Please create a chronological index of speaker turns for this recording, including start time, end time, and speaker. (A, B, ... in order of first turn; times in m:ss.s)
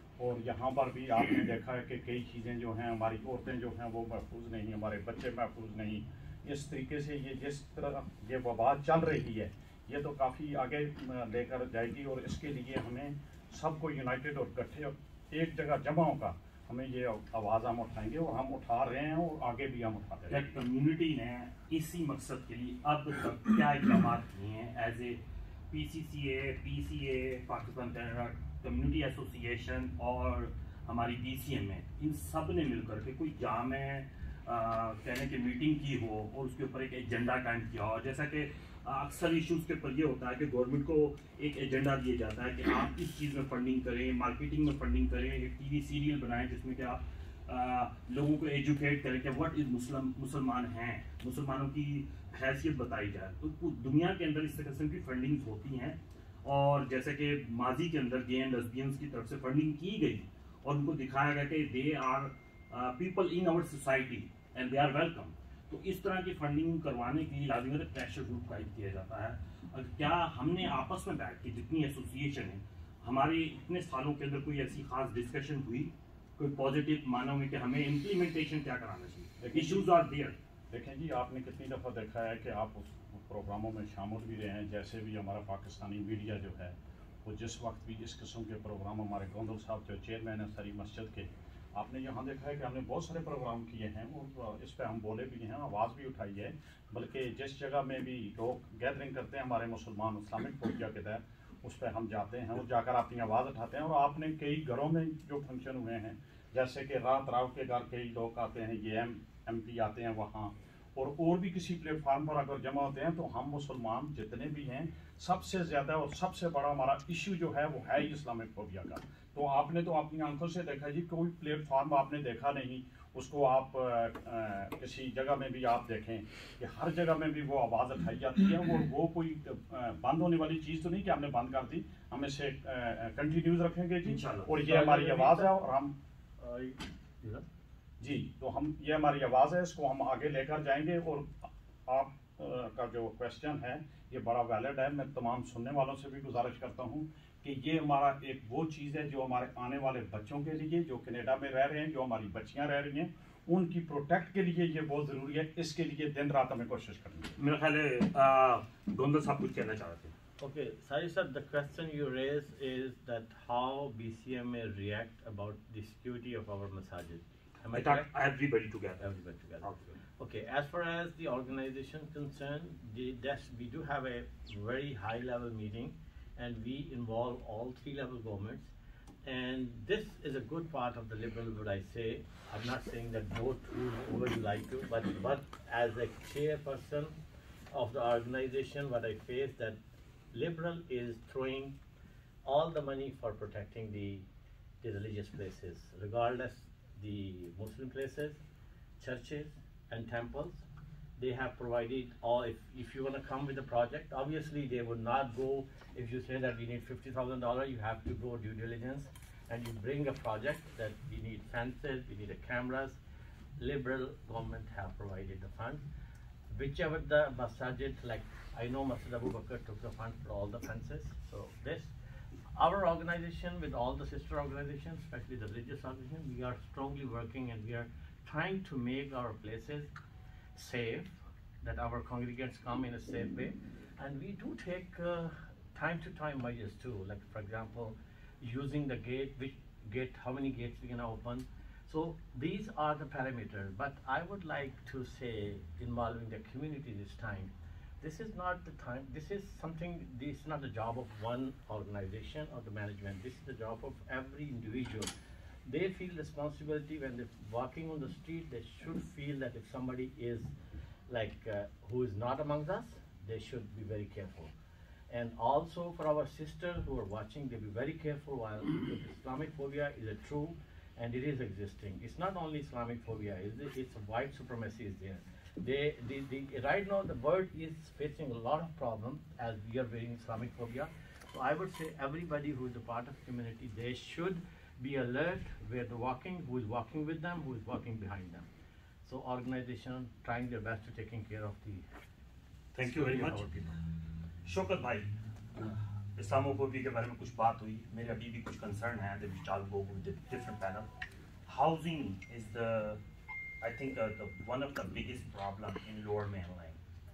0:00.2-0:20.5 A
0:20.3-1:20.4 B
1:19.4-1:19.9 A
1:20.7-2:15.9 A
2:14.0-2:14.6 B
2:14.6-2:15.6 C
2:16.4-2:17.4 C
2:18.0-2:37.4 A
2:37.4-2:40.2 B
2:40.4-2:48.1 C
2:47.7-2:49.1 B
2:49.0-2:58.7 C
2:49.6-2:49.9 B
2:59.2-3:07.2 C
3:07.7-3:09.8 C
3:10.3-3:11.8 C
3:12.4-3:14.3 C
3:14.8-3:18.4 C
3:19.0-3:20.6 C
3:21.2-3:33.0 C
3:33.6-3:35.8 C
3:36.5-3:42.0 C
3:42.6-3:49.9 C
3:50.6-4:15.1 C
4:15.6-4:20.5 C
4:21.1-4:24.5 C
4:25.1-4:48.5 C
4:49.0-4:51.9 C
4:52.8-4:53.5 B
4:52.8-4:53.8 C
4:54.5-4:55.1 B
4:56.2-5:00.9 B
5:01.5-5:03.0 B
5:03.6-5:06.8 B